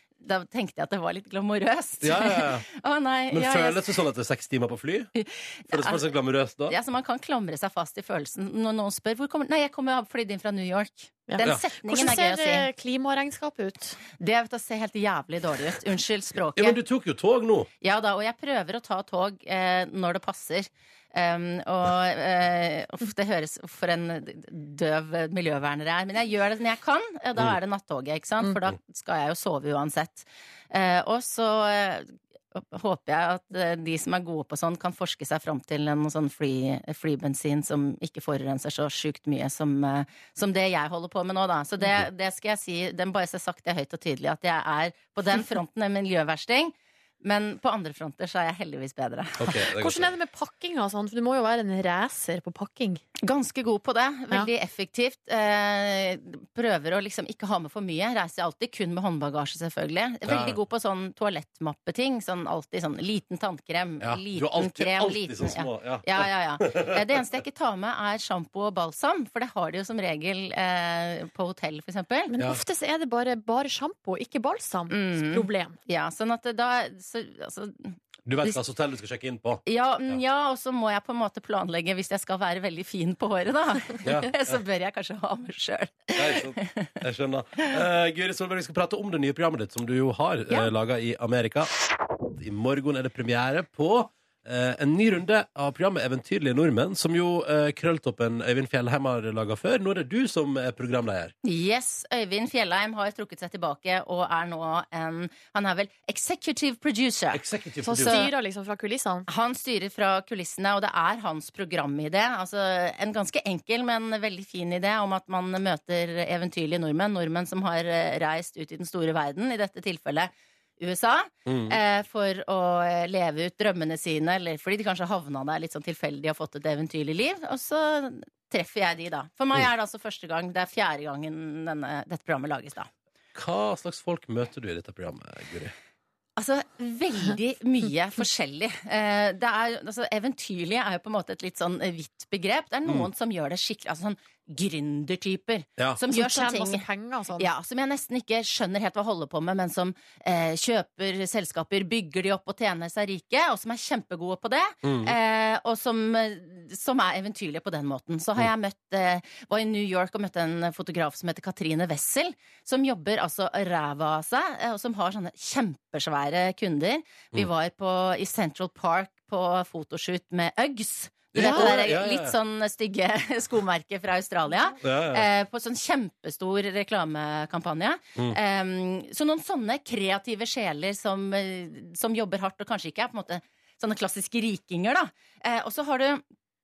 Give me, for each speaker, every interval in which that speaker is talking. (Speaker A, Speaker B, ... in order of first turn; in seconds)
Speaker A: 0.2-3.9, 5.1-6.0, 6.7-12.7, 14.2-16.8, 17.8-49.5, 53.2-72.3, 74.9-78.6, 79.7-86.9, 101.4-107.4, 108.0-108.3, 109.3-132.9, 136.4-146.8, 147.4-186.2
Speaker B: 2.0-2.6, 3.3-5.1, 5.7-6.8, 16.5-17.7, 49.4-50.1, 60.2-60.6, 64.0-67.0, 78.2-80.2, 84.0-84.6, 86.1-91.7, 92.3-101.3, 107.3-108.2, 121.5-121.8, 133.3-135.7, 154.8-155.1, 171.3-172.3, 174.8-175.3
Speaker C: 11.3-14.0, 49.8-53.0, 72.3-75.8, 107.8-109.2, 146.1-147.5, 171.4-171.7